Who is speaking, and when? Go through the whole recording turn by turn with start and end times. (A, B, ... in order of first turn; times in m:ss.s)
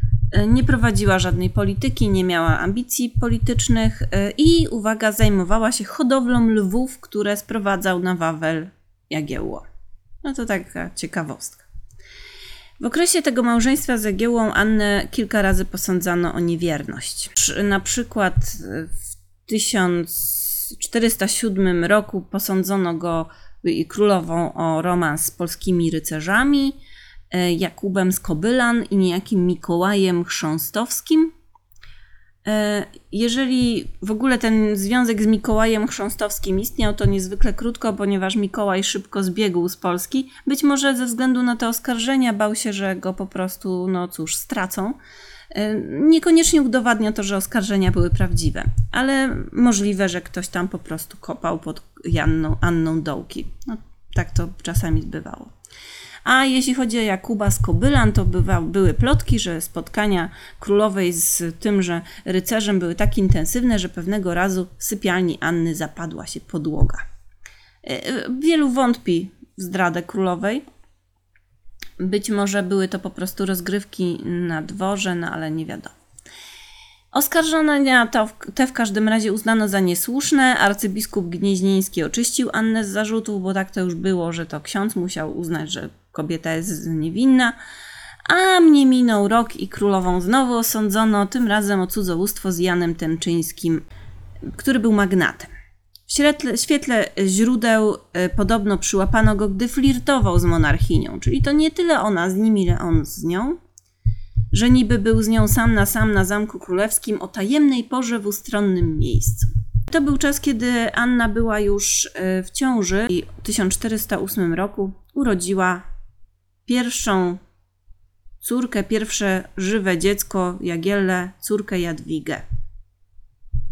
0:00.3-0:09.7 A
0:10.2-0:11.7 A
0:12.8-0:26.8 A
0:27.3-0:31.3 A
0:32.4-0:45.0 A
0:45.5-0:55.5 A
0:56.2-1:07.0 A
1:07.8-1:10.6 A
1:12.0-1:16.0 A
1:17.1-1:27.6 A
1:28.2-1:33.8 A
1:34.5-1:35.5 A
1:36.1-1:43.6 A
1:44.5-1:55.8 A
1:56.7-1:57.4 A
1:58.4-2:02.4 A